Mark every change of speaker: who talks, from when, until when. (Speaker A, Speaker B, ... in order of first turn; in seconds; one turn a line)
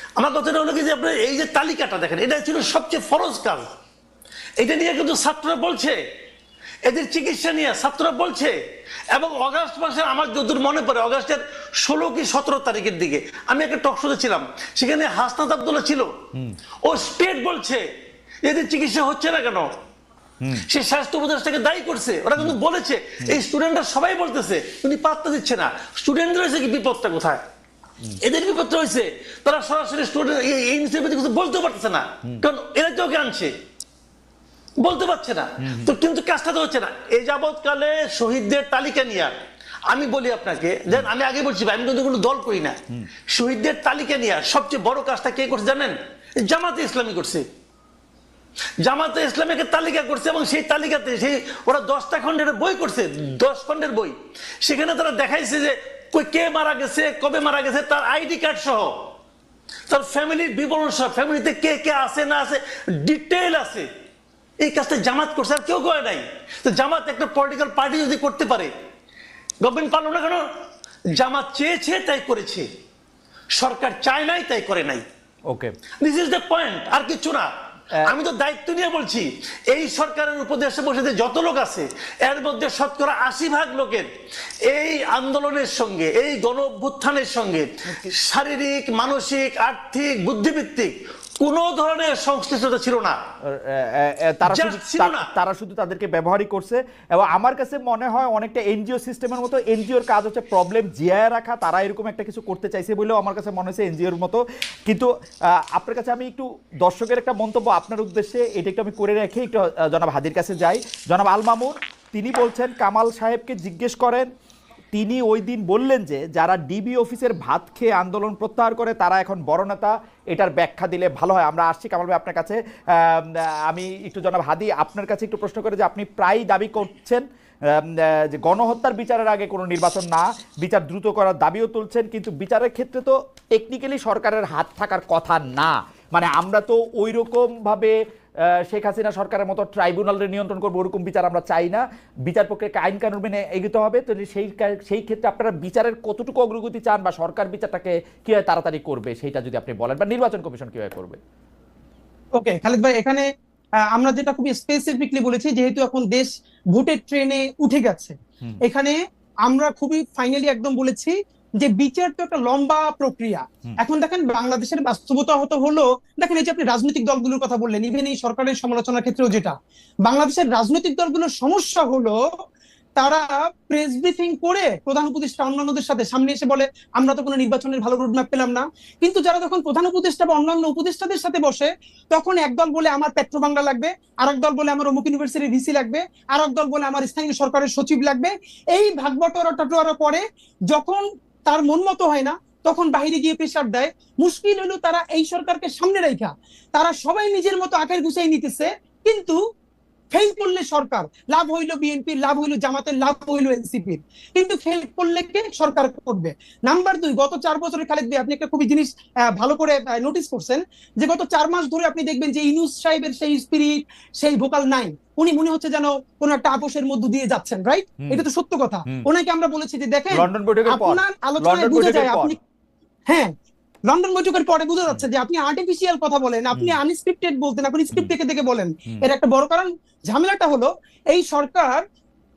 Speaker A: 0.2-3.7
Speaker A: 4.6-6.0
Speaker A: 6.8-8.5
Speaker A: 9.1-16.1
Speaker A: 16.8-17.8
Speaker A: 18.4-19.7
Speaker A: 20.6-27.4
Speaker A: 28.2-33.5
Speaker A: 34.8-39.3
Speaker B: 35.6-35.9
Speaker A: 39.9-47.4
Speaker A: 48.8-59.1
Speaker A: 59.9-63.9
Speaker A: 64.6-68.7
Speaker A: 69.6-70.5
Speaker A: 71.1-72.7
Speaker A: 73.5-75.0
Speaker B: 75.5-75.7
Speaker A: 76.0-84.1
Speaker A: 84.6-93.2
Speaker B: 87.9-88.1
Speaker B: 93.4-114.3
Speaker A: 94.5-95.3
Speaker B: 114.9-151.2
Speaker C: 152.3-153.3
Speaker C: 153.9-172.2
Speaker C: 173.0-199.4
Speaker C: 200.1-222.4
Speaker B: 220.1-222.4
Speaker C: 223.1-223.3
Speaker C: 223.9-231.8